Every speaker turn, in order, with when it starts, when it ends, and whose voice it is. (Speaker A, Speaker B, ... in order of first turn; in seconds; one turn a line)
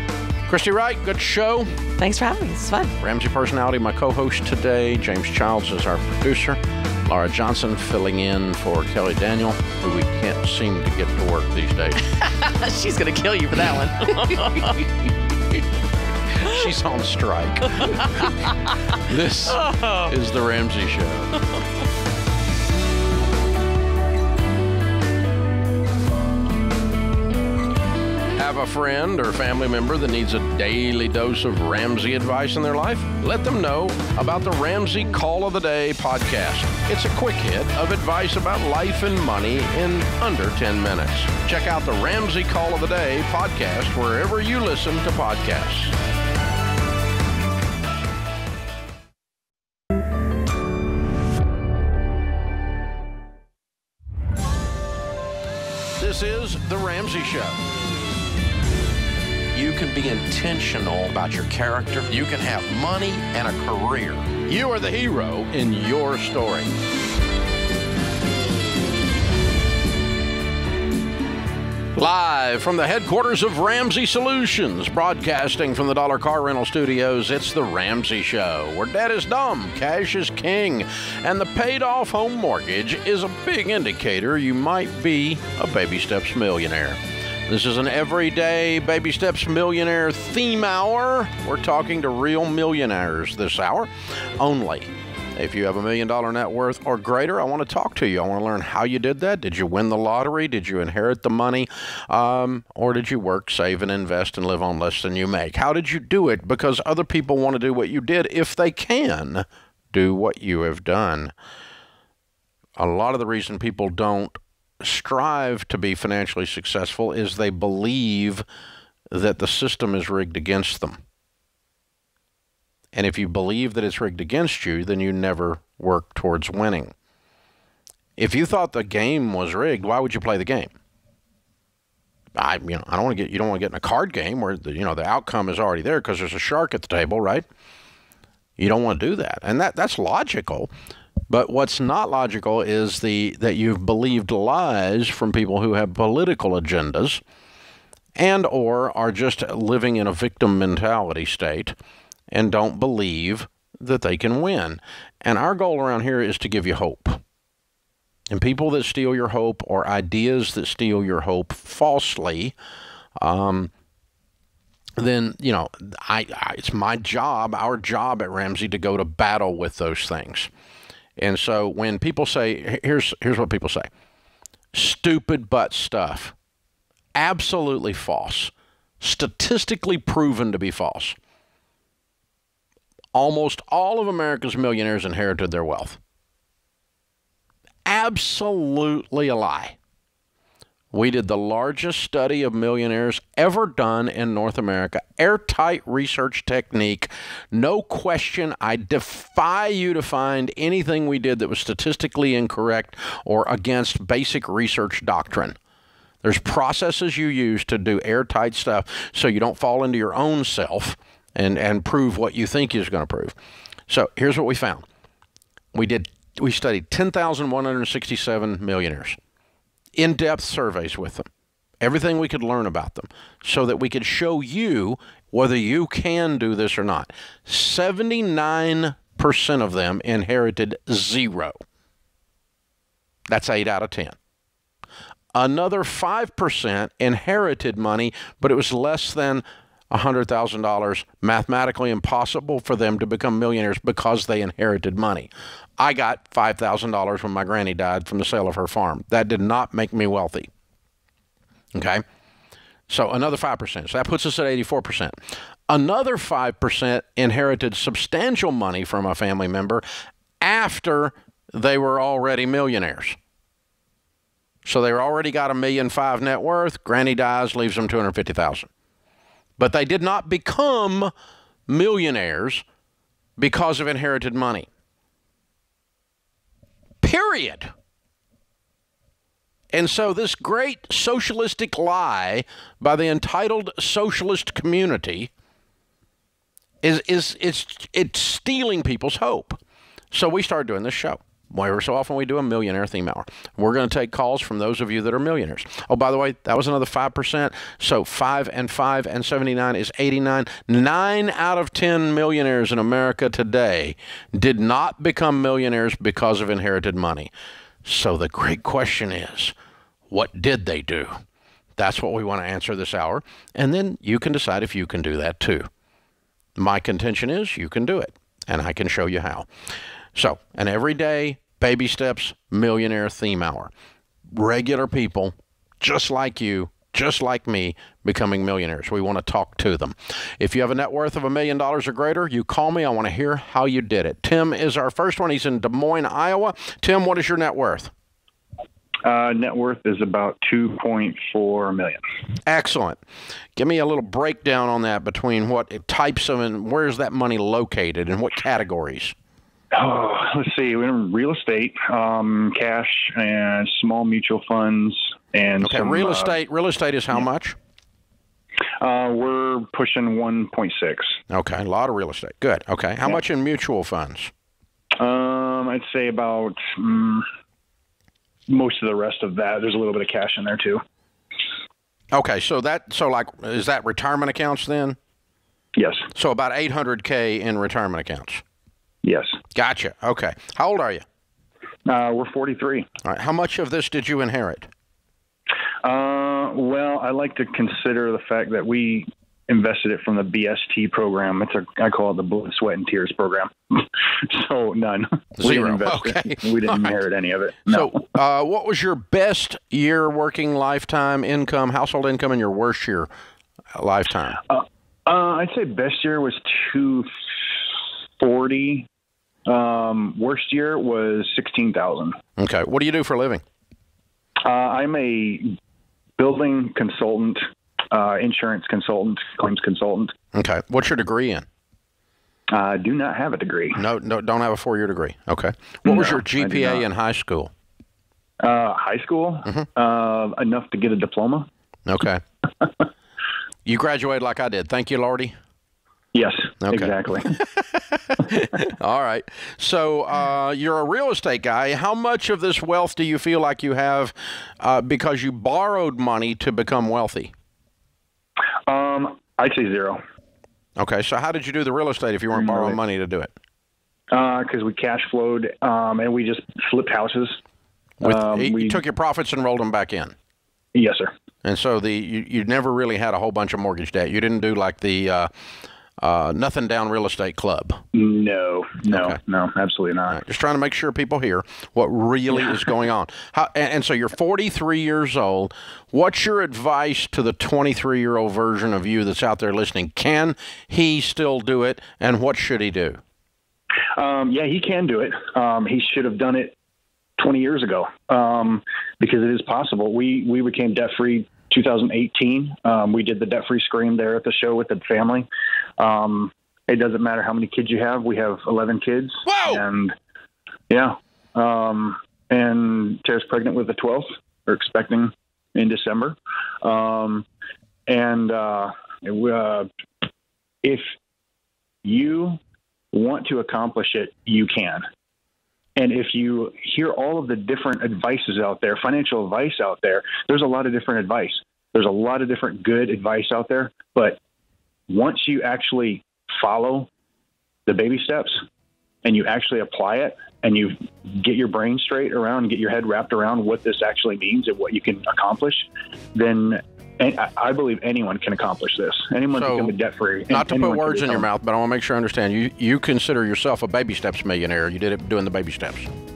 Speaker A: 0.5-1.7
Speaker B: 2.0-2.9
Speaker A: 3.0-12.0
Speaker B: 12.1-14.8
Speaker A: 16.4-18.3
Speaker B: 17.8-19.0
Speaker A: 19.0-21.3
Speaker B: 19.5-20.1
Speaker A: 28.4-46.0
Speaker A: 56.0-57.6
Speaker A: 59.5-66.7
Speaker A: 71.9-111.3
Speaker A: 112.8-118.4
Speaker A: 119.1-121.0
Speaker A: 122.9-126.9
Speaker A: 128.2-130.7
Speaker A: 132.3-137.4
Speaker A: 138.6-140.7
Speaker A: 141.3-147.2
Speaker A: 148.2-151.8
Speaker A: 152.3-157.2
Speaker A: 158.3-162.5
Speaker A: 163.2-163.7
Speaker A: 165.0-170.5
Speaker A: 171.2-173.9
Speaker A: 174.7-176.3
Speaker A: 177.1-181.2
Speaker A: 183.1-186.0
Speaker A: 187.8-189.8
Speaker A: 190.9-205.6
Speaker A: 206.2-213.3
Speaker A: 213.9-214.8
Speaker A: 215.7-219.2
Speaker A: 219.9-221.3
Speaker A: 221.8-231.6
Speaker A: 233.3-234.2
Speaker A: 235.3-250.5
Speaker A: 251.7-252.0
Speaker A: 252.9-255.2
Speaker A: 255.7-259.8
Speaker A: 260.4-263.2
Speaker A: 264.6-268.7
Speaker A: 269.6-271.1
Speaker A: 271.7-272.6
Speaker A: 273.4-274.7
Speaker A: 277.0-277.7
Speaker A: 279.7-285.3
Speaker A: 286.8-289.6
Speaker A: 290.1-307.3
Speaker A: 307.8-309.5
Speaker A: 310.1-311.2
Speaker A: 311.8-315.7
Speaker A: 316.6-319.5
Speaker A: 320.1-323.7
Speaker A: 324.3-337.9
Speaker C: 339.0-342.0
Speaker A: 342.4-343.0
Speaker A: 343.6-349.1
Speaker C: 349.7-356.4
Speaker A: 355.6-357.6
Speaker C: 358.8-361.2
Speaker A: 361.3-364.3
Speaker C: 365.0-367.2
Speaker C: 368.5-370.8
Speaker A: 372.1-375.0
Speaker C: 375.7-376.1
Speaker A: 376.1-378.4
Speaker C: 379.0-379.4
Speaker A: 379.5-381.0
Speaker C: 381.9-382.9
Speaker A: 383.0-384.7
Speaker C: 385.8-397.9
Speaker A: 395.4-397.0
Speaker A: 397.6-403.1
Speaker A: 403.7-404.4
Speaker C: 404.5-407.6
Speaker C: 408.2-408.9
Speaker C: 409.4-412.2
Speaker A: 412.4-413.4
Speaker C: 414.4-415.6
Speaker C: 416.2-420.1
Speaker A: 420.3-421.4
Speaker C: 422.5-423.8
Speaker A: 423.7-427.5
Speaker C: 425.8-426.9
Speaker C: 428.4-431.5
Speaker A: 431.9-432.2
Speaker A: 433.6-435.4
Speaker C: 436.1-437.3
Speaker A: 436.6-447.3
Speaker C: 448.7-450.0
Speaker A: 450.8-453.3
Speaker C: 452.3-452.8
Speaker C: 454.1-457.4
Speaker C: 458.0-458.8
Speaker A: 458.0-460.1
Speaker C: 460.7-461.1
Speaker A: 461.4-465.3
Speaker A: 466.0-467.8
Speaker C: 467.9-470.2
Speaker A: 468.9-469.2
Speaker A: 470.1-483.0
Speaker C: 483.9-486.5
Speaker C: 487.2-495.3
Speaker C: 495.8-499.9
Speaker A: 499.2-499.6
Speaker C: 500.7-507.2
Speaker C: 507.9-509.7
Speaker C: 510.6-510.9
Speaker C: 511.8-512.4
Speaker C: 512.9-514.9
Speaker C: 515.8-524.2
Speaker C: 524.9-526.9
Speaker C: 527.6-528.4
Speaker C: 529.0-541.3
Speaker A: 539.3-539.7
Speaker A: 540.3-545.9